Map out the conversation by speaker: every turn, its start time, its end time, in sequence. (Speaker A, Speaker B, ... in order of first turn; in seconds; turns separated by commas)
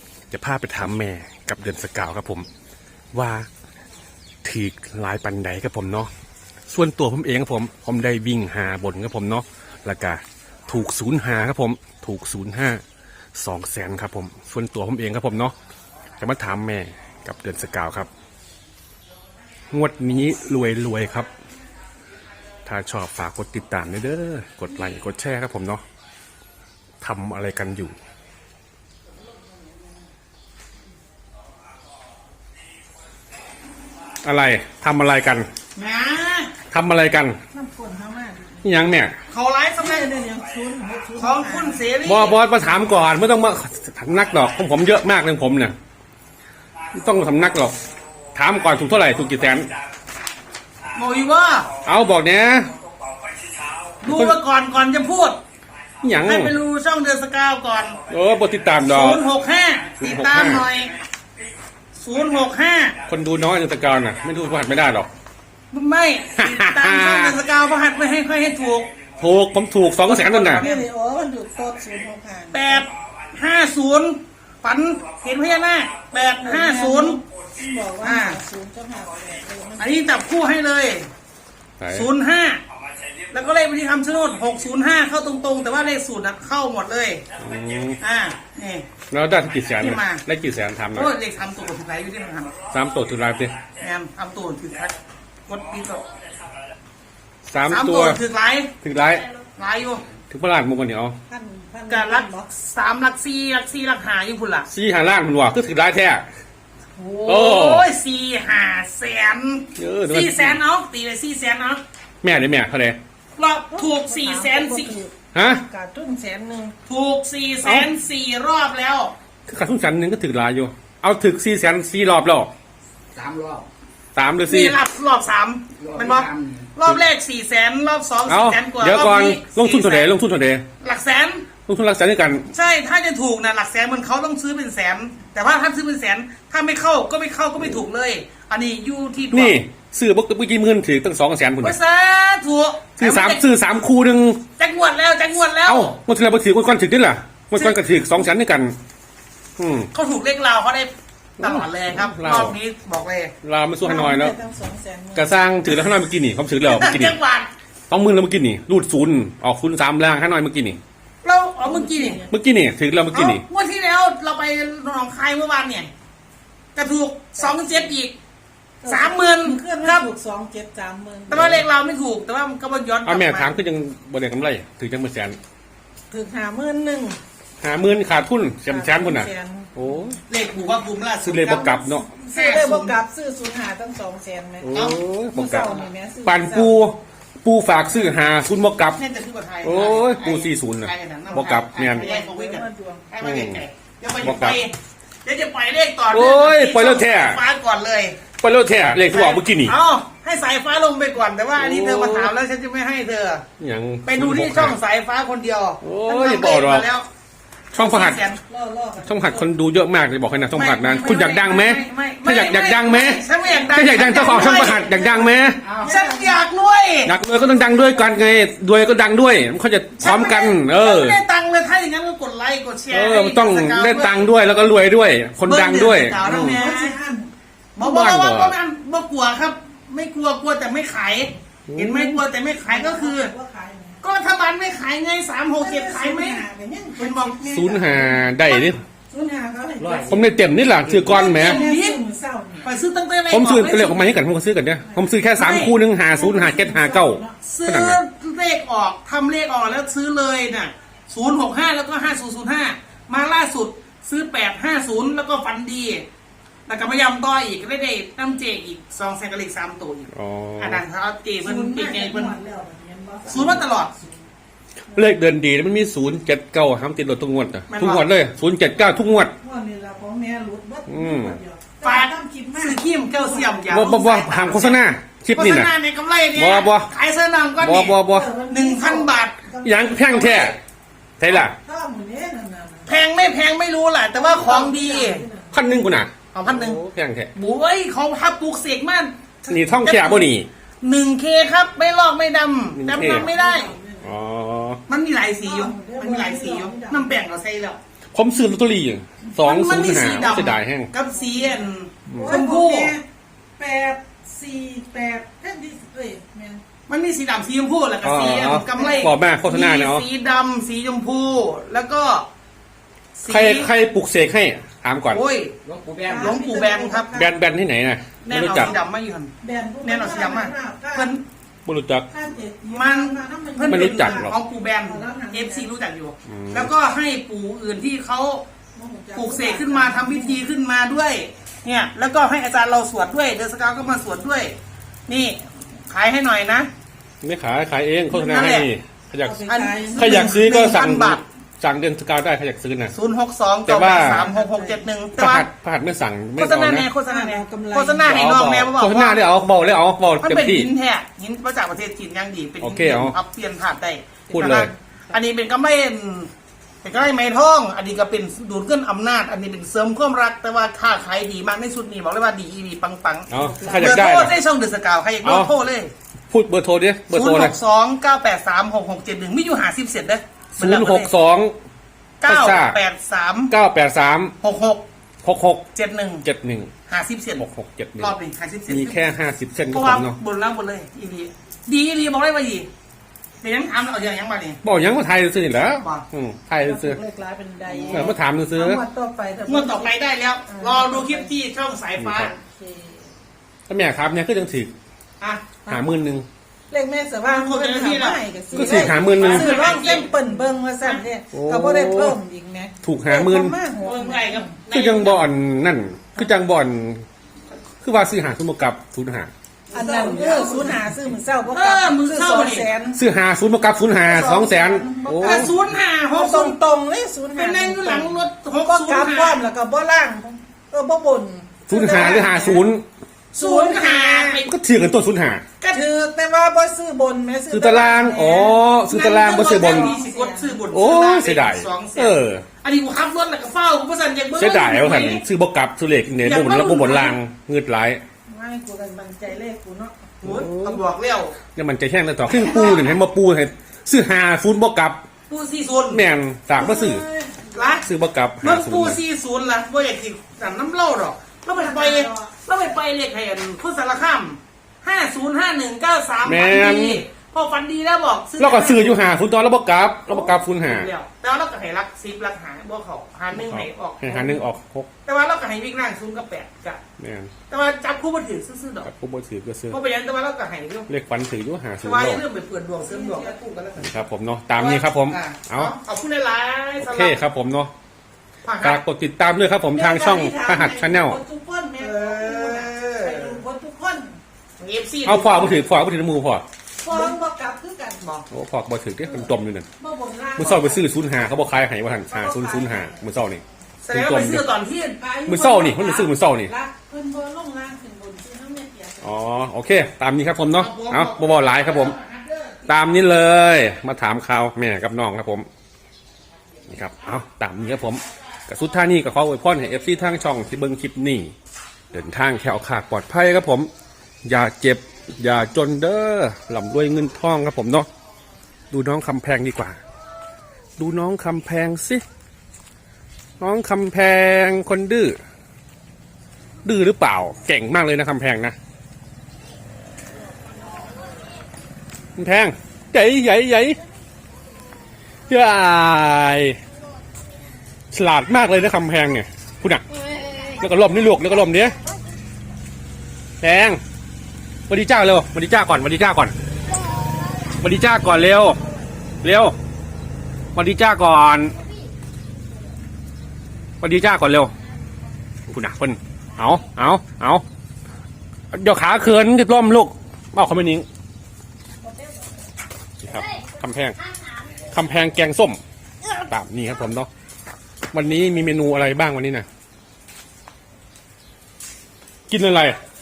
Speaker A: 0.3-2.5, Speaker A: 3.1-3.5, Speaker A: 4.4-6.1, Speaker A: 6.7-12.8, Speaker A: 13.3-15.5, Speaker A: 16.2-18.1, Speaker A: 19.7-21.3, Speaker A: 22.6-25.8, Speaker A: 27.0-27.9, Speaker A: 34.2-35.5, Speaker B: 35.7-36.5, Speaker A: 36.7-37.4, Speaker C: 37.5-38.7, Speaker A: 38.6-39.1, Speaker B: 39.3-40.1, Speaker C: 39.8-41.8, Speaker B: 41.2-42.4, Speaker A: 42.0-45.7, Speaker A: 46.9-47.7, Speaker A: 48.3-49.7, Speaker B: 50.9-51.7, Speaker A: 51.8-52.7, Speaker B: 54.0-55.4, Speaker A: 54.1-54.3, Speaker A: 56.0-56.5, Speaker B: 56.2-58.0, Speaker A: 58.1-59.2, Speaker B: 58.8-60.9, Speaker A: 60.0-60.7, Speaker B: 62.0-63.0, Speaker A: 63.0-65.1, Speaker B: 65.7-68.9, Speaker A: 66.4-67.3, Speaker A: 69.2-70.6, Speaker B: 70.0-70.9, Speaker C: 70.5-72.8, Speaker B: 72.5-77.2, Speaker C: 76.3-79.9, Speaker B: 78.0-78.4, Speaker B: 79.8-81.1, Speaker A: 81.8-82.1, Speaker B: 81.9-82.6, Speaker B: 83.3-87.2, Speaker A: 87.4-88.0, Speaker B: 88.0-88.9, Speaker A: 89.1-91.1, Speaker B: 89.7-90.2, Speaker B: 90.9-92.6, Speaker A: 92.7-93.6, Speaker B: 93.8-95.0, Speaker B: 95.5-96.1, Speaker A: 97.5-98.2, Speaker B: 97.7-98.7, Speaker A: 98.8-99.2, Speaker B: 99.4-100.0, Speaker A: 100.3-101.2, Speaker C: 101.3-102.5, Speaker B: 101.9-104.7, Speaker A: 104.7-106.2, Speaker B: 107.0-111.8, Speaker A: 107.2-107.8, Speaker A: 109.8-110.6, Speaker A: 112.2-113.0, Speaker B: 113.3-115.0, Speaker C: 113.7-116.7, Speaker A: 115.3-115.6, Speaker B: 116.9-119.1, Speaker A: 117.6-117.9, Speaker A: 119.5-122.5, Speaker D: 123.1-123.7, Speaker A: 124.1-124.8, Speaker B: 124.4-130.1, Speaker D: 125.8-126.6, Speaker A: 128.3-130.6, Speaker B: 130.8-131.5, Speaker A: 131.7-132.5, Speaker B: 132.5-139.6, Speaker A: 139.3-141.8, Speaker B: 141.6-143.4, Speaker A: 143.0-144.4, Speaker B: 144.6-146.0, Speaker A: 145.7-148.7, Speaker A: 149.6-149.9, Speaker B: 149.9-153.3, Speaker A: 151.4-152.5, Speaker A: 153.4-154.3, Speaker C: 153.8-155.4, Speaker A: 155.1-157.2, Speaker B: 156.6-157.5, Speaker A: 157.9-160.8, Speaker B: 161.2-162.2, Speaker C: 161.6-162.3, Speaker A: 162.3-163.4, Speaker B: 163.1-165.9, Speaker B: 166.8-168.2, Speaker C: 167.4-167.9, Speaker C: 168.8-171.6, Speaker B: 168.8-170.1, Speaker B: 171.3-173.6, Speaker A: 173.1-175.4, Speaker C: 176.1-177.2, Speaker A: 177.6-180.2, Speaker C: 178.7-180.0, Speaker B: 180.3-182.9, Speaker A: 181.2-182.1, Speaker C: 182.0-186.8, Speaker A: 184.6-189.0, Speaker B: 188.9-198.2, Speaker A: 189.6-192.1, Speaker C: 191.9-193.1, Speaker A: 193.2-193.6, Speaker A: 194.2-194.6, Speaker A: 196.1-197.4, Speaker A: 198.4-199.7, Speaker B: 199.1-203.4, Speaker A: 201.6-202.3, Speaker A: 203.6-204.8, Speaker B: 204.0-207.1, Speaker A: 205.8-206.9, Speaker A: 207.7-208.2, Speaker B: 207.7-208.4, Speaker C: 208.4-209.5, Speaker A: 209.0-215.6, Speaker B: 210.5-217.2, Speaker C: 214.2-215.0, Speaker C: 215.8-216.4, Speaker A: 217.1-221.2, Speaker B: 220.0-224.4, Speaker A: 222.9-226.6, Speaker B: 225.4-226.9, Speaker C: 226.2-227.3, Speaker B: 227.8-233.3, Speaker A: 227.8-228.5, Speaker A: 231.7-232.2, Speaker C: 232.6-234.0, Speaker B: 234.0-236.4, Speaker C: 235.6-240.2, Speaker B: 236.9-237.8, Speaker A: 237.5-238.8, Speaker A: 240.1-241.6, Speaker D: 240.7-241.2, Speaker B: 241.0-242.0, Speaker C: 241.3-242.7, Speaker B: 242.6-244.2, Speaker A: 243.3-248.0, Speaker B: 245.3-245.8, Speaker C: 246.1-247.4, Speaker B: 247.4-256.0, Speaker B: 256.7-262.4, Speaker A: 260.1-260.8, Speaker C: 261.4-264.2, Speaker B: 263.3-263.9, Speaker A: 264.9-269.3, Speaker B: 267.7-268.1, Speaker C: 269.4-273.7, Speaker A: 270.9-271.4, Speaker B: 271.8-279.5, Speaker A: 273.7-275.7, Speaker A: 276.4-276.9, Speaker A: 277.6-278.3, Speaker C: 277.9-280.5, Speaker A: 279.6-280.6, Speaker A: 281.2-281.6, Speaker C: 281.3-282.9, Speaker B: 282.9-285.2, Speaker C: 284.1-285.6, Speaker A: 285.5-287.3, Speaker B: 286.3-286.8, Speaker B: 287.3-293.7, Speaker A: 289.5-290.5, Speaker A: 292.7-293.3, Speaker C: 293.0-294.1, Speaker A: 294.0-294.8, Speaker B: 294.9-297.8, Speaker C: 295.4-297.1, Speaker A: 298.1-300.9, Speaker B: 299.4-302.9, Speaker C: 301.1-301.6, Speaker A: 302.1-302.4, Speaker C: 302.2-303.0, Speaker C: 303.6-306.6, Speaker B: 306.9-312.3, Speaker A: 308.0-310.1, Speaker C: 308.7-309.1, Speaker B: 313.1-313.7, Speaker A: 313.3-315.2, Speaker B: 315.1-315.6, Speaker D: 315.6-316.2, Speaker C: 316.0-317.4, Speaker B: 316.1-317.1, Speaker A: 317.1-318.7, Speaker B: 318.2-319.3, Speaker C: 319.4-321.1, Speaker B: 319.8-321.2, Speaker A: 321.6-322.1, Speaker C: 322.1-325.7, Speaker B: 322.7-328.4, Speaker A: 323.6-324.3, Speaker A: 326.3-326.7, Speaker C: 328.7-330.4, Speaker B: 329.1-334.6, Speaker B: 335.1-336.7, Speaker A: 337.2-339.4, Speaker B: 338.1-338.7, Speaker C: 339.2-340.4, Speaker B: 339.5-341.2, Speaker A: 339.9-342.9, Speaker B: 342.9-345.5, Speaker A: 343.6-344.2, Speaker C: 344.0-344.8, Speaker A: 345.2-346.9, Speaker B: 346.4-349.2, Speaker C: 347.1-348.2, Speaker A: 348.1-350.7, Speaker B: 350.2-356.3, Speaker A: 352.6-353.1, Speaker A: 354.3-354.7, Speaker C: 354.3-354.7, Speaker B: 356.8-365.9, Speaker A: 363.3-364.3, Speaker C: 363.4-364.3, Speaker A: 365.2-365.5, Speaker A: 366.3-367.5, Speaker B: 367.1-371.1, Speaker A: 370.6-371.6, Speaker B: 372.2-373.5, Speaker A: 372.2-372.8, Speaker A: 373.5-374.3, Speaker B: 374.4-374.8, Speaker A: 375.2-375.6, Speaker B: 375.7-376.2, Speaker A: 376.2-376.7, Speaker B: 376.9-377.4, Speaker A: 377.4-378.1, Speaker B: 378.0-379.0, Speaker A: 378.7-380.1, Speaker B: 379.7-382.7, Speaker B: 383.4-384.6, Speaker A: 384.6-387.0, Speaker B: 385.8-386.0, Speaker C: 386.6-389.9, Speaker B: 387.7-388.1, Speaker A: 387.9-388.8, Speaker B: 389.5-392.4, Speaker C: 390.5-391.3, Speaker A: 392.0-392.3, Speaker C: 392.4-393.1, Speaker A: 393.7-394.7, Speaker B: 395.2-395.5, Speaker A: 395.7-396.2, Speaker C: 396.7-404.5, Speaker B: 397.3-400.3, Speaker A: 398.5-399.8, Speaker A: 401.3-402.2, Speaker A: 402.8-403.5, Speaker B: 403.8-405.3, Speaker A: 404.7-407.1, Speaker A: 407.8-409.3, Speaker B: 409.7-410.9, Speaker C: 409.7-413.0, Speaker B: 411.5-412.7, Speaker A: 412.9-415.5, Speaker C: 414.1-415.5, Speaker B: 415.2-416.6, Speaker C: 416.1-422.7, Speaker B: 417.4-419.4, Speaker A: 421.7-422.8, Speaker B: 421.8-422.4, Speaker B: 423.3-424.5, Speaker C: 423.4-424.4, Speaker A: 424.4-425.4, Speaker B: 425.6-425.8, Speaker C: 425.7-430.6, Speaker A: 427.5-429.9, Speaker B: 428.9-435.2, Speaker A: 430.7-432.4, Speaker A: 434.4-438.0, Speaker B: 436.2-437.2, Speaker C: 438.3-440.2, Speaker B: 440.2-441.4, Speaker A: 440.2-440.8, Speaker A: 441.5-445.0, Speaker B: 442.4-442.9, Speaker B: 445.3-446.1, Speaker A: 445.9-447.1, Speaker C: 446.6-447.7, Speaker B: 447.5-447.9, Speaker A: 447.8-449.0, Speaker B: 448.4-459.1, Speaker C: 451.5-452.3, Speaker A: 456.2-457.0, Speaker A: 458.4-460.9, Speaker B: 460.1-464.4, Speaker A: 463.3-464.9, Speaker B: 465.1-466.8, Speaker A: 467.0-467.3, Speaker B: 467.5-468.9, Speaker A: 468.8-469.8, Speaker B: 469.7-470.9, Speaker A: 470.9-472.2, Speaker B: 471.8-474.0, Speaker C: 472.8-473.4, Speaker A: 473.8-475.7, Speaker B: 474.5-477.1, Speaker A: 476.8-477.7, Speaker B: 478.4-478.8, Speaker A: 478.6-481.2, Speaker C: 479.7-484.2, Speaker B: 481.8-483.4, Speaker B: 484.6-485.6, Speaker A: 485.0-486.4, Speaker C: 486.8-488.1, Speaker B: 486.9-487.1, Speaker B: 488.0-488.2, Speaker A: 488.3-489.6, Speaker C: 489.8-490.9, Speaker A: 490.4-494.4, Speaker C: 492.0-493.0, Speaker B: 493.8-495.0, Speaker C: 495.0-499.1, Speaker A: 495.2-496.5, Speaker A: 499.0-501.9, Speaker B: 500.5-502.6, Speaker A: 502.7-505.5, Speaker A: 506.7-511.3, Speaker A: 511.9-513.7, Speaker A: 514.2-517.9, Speaker A: 518.7-519.8, Speaker A: 520.8-522.0, Speaker A: 523.4-525.2, Speaker A: 526.6-528.5, Speaker A: 532.1-533.8, Speaker A: 535.3-536.6, Speaker A: 537.9-539.9, Speaker A: 540.5-541.8, Speaker A: 543.4-543.8, Speaker A: 544.7-546.3, Speaker A: 547.5-548.6, Speaker A: 549.2-549.5, Speaker A: 550.5-551.6, Speaker A: 553.8-554.5, Speaker A: 555.5-557.4, Speaker A: 558.5-560.9, Speaker C: 561.8-562.4, Speaker A: 563.0-564.0, Speaker A: 564.6-565.6, Speaker A: 566.2-567.1, Speaker A: 567.9-569.5, Speaker A: 572.3-572.8